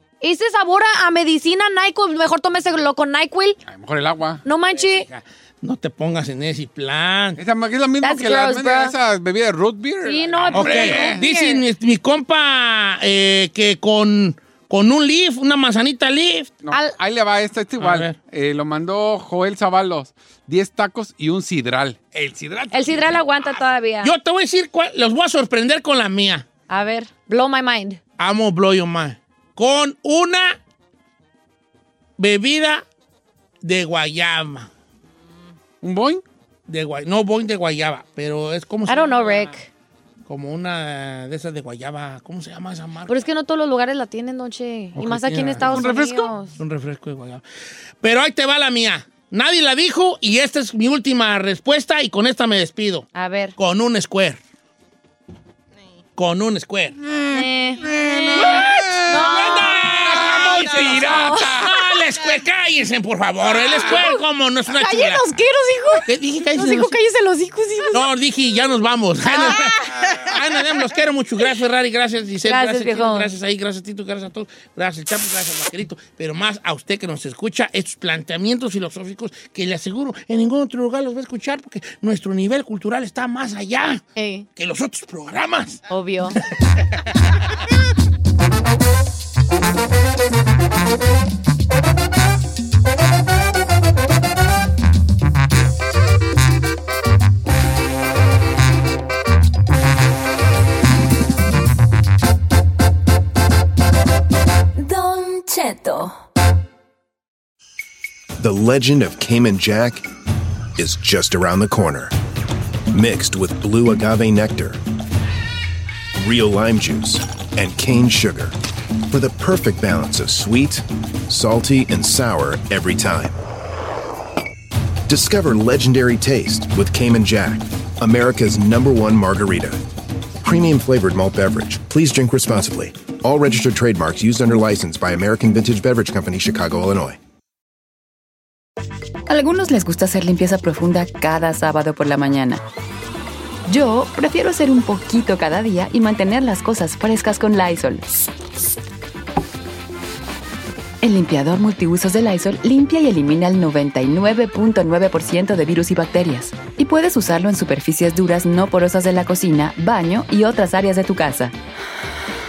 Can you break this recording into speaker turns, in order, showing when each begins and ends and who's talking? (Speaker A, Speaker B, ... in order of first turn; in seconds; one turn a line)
Speaker A: 0.2-3.6
Speaker B: 3.6-4.4
Speaker A: 4.5-5.1
Speaker C: 4.7-7.4
Speaker B: 7.3-11.2
Speaker A: 8.0-8.9
Speaker A: 10.0-11.6
Speaker C: 10.5-16.6
Speaker B: 16.6-23.6
Speaker C: 17.8-18.1
Speaker A: 22.7-24.1
Speaker C: 24.0-26.5
Speaker A: 26.7-28.0
Speaker C: 28.2-30.6
Speaker C: 32.2-32.8
Speaker C: 33.6-34.7
Speaker B: 35.8-36.2
Speaker C: 36.7-39.5
Speaker A: 38.9-39.7
Speaker C: 40.3-43.3
Speaker A: 43.1-46.5
Speaker C: 44.9-45.9
Speaker B: 45.6-46.3
Speaker C: 46.5-47.4
Speaker C: 48.0-53.0
Speaker A: 53.1-53.5
Speaker C: 53.6-54.4
Speaker C: 56.1-57.0
Speaker B: 57.3-59.3
Speaker A: 57.3-57.8
Speaker C: 58.3-65.2
Speaker A: 59.1-61.4
Speaker B: 60.0-61.9
Speaker A: 63.9-64.2
Speaker A: 64.7-68.1
Speaker C: 66.0-66.9
Speaker C: 67.9-84.0
Speaker A: 69.3-69.7
Speaker A: 72.4-73.3
Speaker A: 84.2-84.5
Speaker C: 84.5-85.8
Speaker A: 85.9-86.3
Speaker C: 86.6-86.8
Speaker D: 104.8-106.1
Speaker E: 108.4-110.1
Speaker E: 110.7-112.1
Speaker E: 112.9-114.8
Speaker E: 116.2-118.5
Speaker E: 119.0-123.3
Speaker E: 125.1-129.8
Speaker E: 130.4-137.2
Speaker D: 139.3-142.6
Speaker D: 143.7-148.2
Speaker D: 151.0-161.5